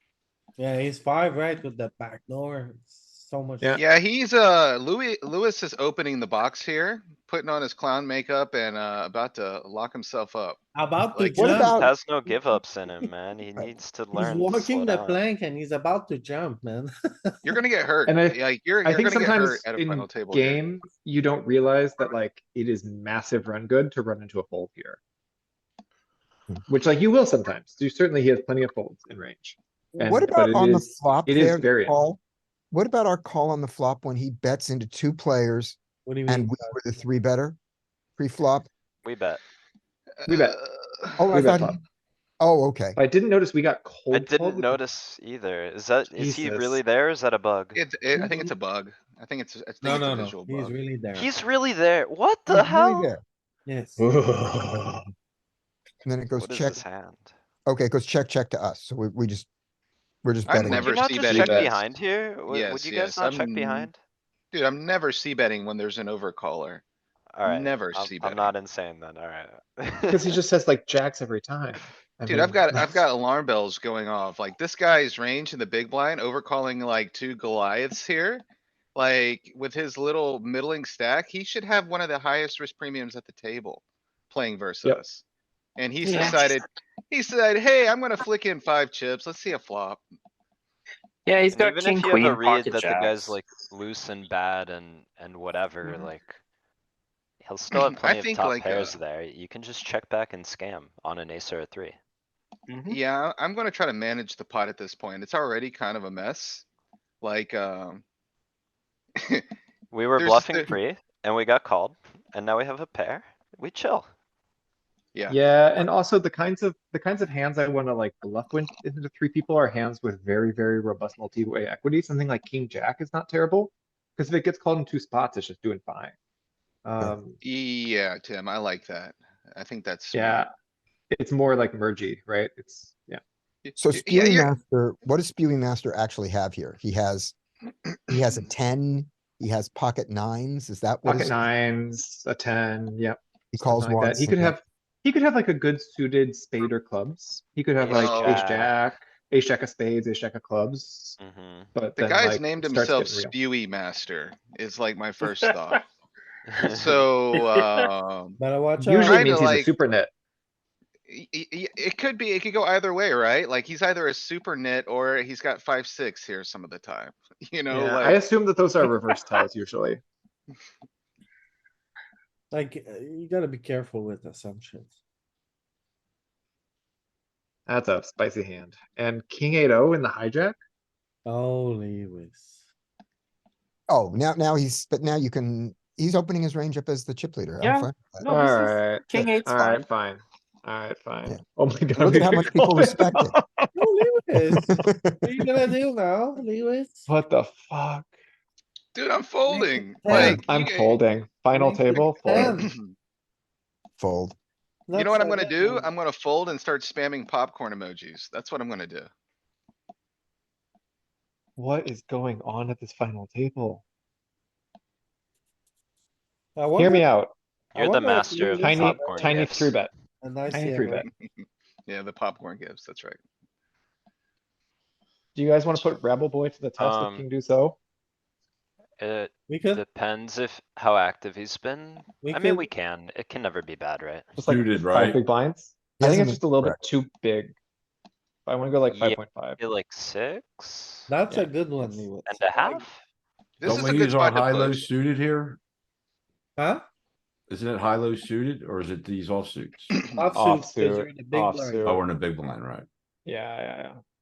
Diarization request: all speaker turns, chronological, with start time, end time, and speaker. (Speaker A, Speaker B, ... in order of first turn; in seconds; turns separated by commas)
Speaker A: 0.6-3.8, Speaker B: 3.8-10.6, Speaker A: 10.7-11.8, Speaker B: 11.1-11.7, Speaker C: 11.3-11.9, Speaker D: 11.6-15.2, Speaker A: 14.1-17.5, Speaker B: 17.4-20.6, Speaker E: 18.1-25.0, Speaker E: 26.7-32.0, Speaker C: 30.0-32.2, Speaker C: 32.7-37.6, Speaker A: 36.0-36.8, Speaker C: 38.2-38.7, Speaker D: 39.0-39.4, Speaker B: 40.2-41.1, Speaker E: 40.3-40.6, Speaker C: 41.2-41.8, Speaker E: 41.3-41.8, Speaker C: 42.4-43.0, Speaker E: 43.0-44.8, Speaker D: 44.1-47.8, Speaker E: 46.0-46.8, Speaker B: 47.8-50.8, Speaker A: 49.8-51.3, Speaker D: 51.1-53.1, Speaker C: 52.5-53.2, Speaker A: 53.6-54.1, Speaker C: 56.0-56.8, Speaker D: 56.4-57.3, Speaker C: 57.7-59.5, Speaker C: 60.2-60.9, Speaker B: 60.5-61.8, Speaker D: 60.6-64.0, Speaker E: 61.3-61.8, Speaker B: 62.5-63.9, Speaker B: 64.5-66.8, Speaker D: 67.3-70.4, Speaker B: 67.4-68.5, Speaker E: 70.1-73.0, Speaker B: 72.3-78.4, Speaker B: 78.9-85.2, Speaker B: 85.8-90.0, Speaker F: 86.0-86.6, Speaker F: 91.2-93.3, Speaker D: 91.5-96.4, Speaker D: 97.4-102.0, Speaker B: 98.0-99.0, Speaker F: 102.7-102.9, Speaker B: 102.9-106.6, Speaker B: 107.2-108.0, Speaker D: 109.9-114.1, Speaker B: 110.2-110.7, Speaker E: 115.3-126.1, Speaker E: 126.8-127.4, Speaker B: 127.4-130.4, Speaker E: 130.1-130.5, Speaker E: 131.1-133.2, Speaker B: 133.6-134.5, Speaker C: 133.8-137.3, Speaker C: 138.1-141.5, Speaker E: 141.1-151.2, Speaker C: 143.5-144.6, Speaker D: 147.8-148.7, Speaker B: 147.9-148.4, Speaker D: 151.2-151.7, Speaker E: 151.7-153.3, Speaker B: 152.0-155.8, Speaker D: 156.5-157.0, Speaker B: 156.6-158.4, Speaker A: 158.4-159.4, Speaker E: 158.8-160.1, Speaker B: 159.0-159.7, Speaker B: 161.1-168.2, Speaker E: 167.7-170.0, Speaker A: 172.5-174.9, Speaker E: 177.7-180.6, Speaker A: 181.2-182.6, Speaker C: 183.9-188.3, Speaker F: 187.6-189.9, Speaker E: 188.2-193.9, Speaker C: 192.0-193.3, Speaker A: 193.7-197.1, Speaker C: 194.6-195.2, Speaker E: 197.1-198.1, Speaker B: 198.9-201.0, Speaker A: 199.5-200.4, Speaker E: 200.0-202.6, Speaker A: 201.5-202.7, Speaker B: 202.6-202.9, Speaker C: 204.0-204.3, Speaker A: 204.9-205.9, Speaker B: 204.9-209.1, Speaker E: 211.6-213.8, Speaker A: 216.6-217.1, Speaker E: 216.8-217.3, Speaker A: 217.7-219.5, Speaker D: 217.7-219.8, Speaker E: 218.4-219.9, Speaker A: 220.2-221.1, Speaker E: 220.5-221.1, Speaker B: 221.4-223.2, Speaker E: 225.3-227.8, Speaker D: 226.8-227.2, Speaker D: 229.0-234.3, Speaker A: 229.5-229.8, Speaker A: 232.2-232.7, Speaker E: 234.3-237.5, Speaker G: 234.4-235.2, Speaker C: 236.0-236.8, Speaker E: 238.4-239.6, Speaker D: 238.9-241.1, Speaker A: 241.1-242.4, Speaker E: 241.3-242.8, Speaker D: 242.2-243.0, Speaker B: 243.6-244.9, Speaker G: 243.6-245.6, Speaker A: 246.6-246.8, Speaker G: 247.5-250.1, Speaker A: 250.1-251.9, Speaker E: 250.3-252.0, Speaker G: 251.8-252.8, Speaker E: 253.2-254.0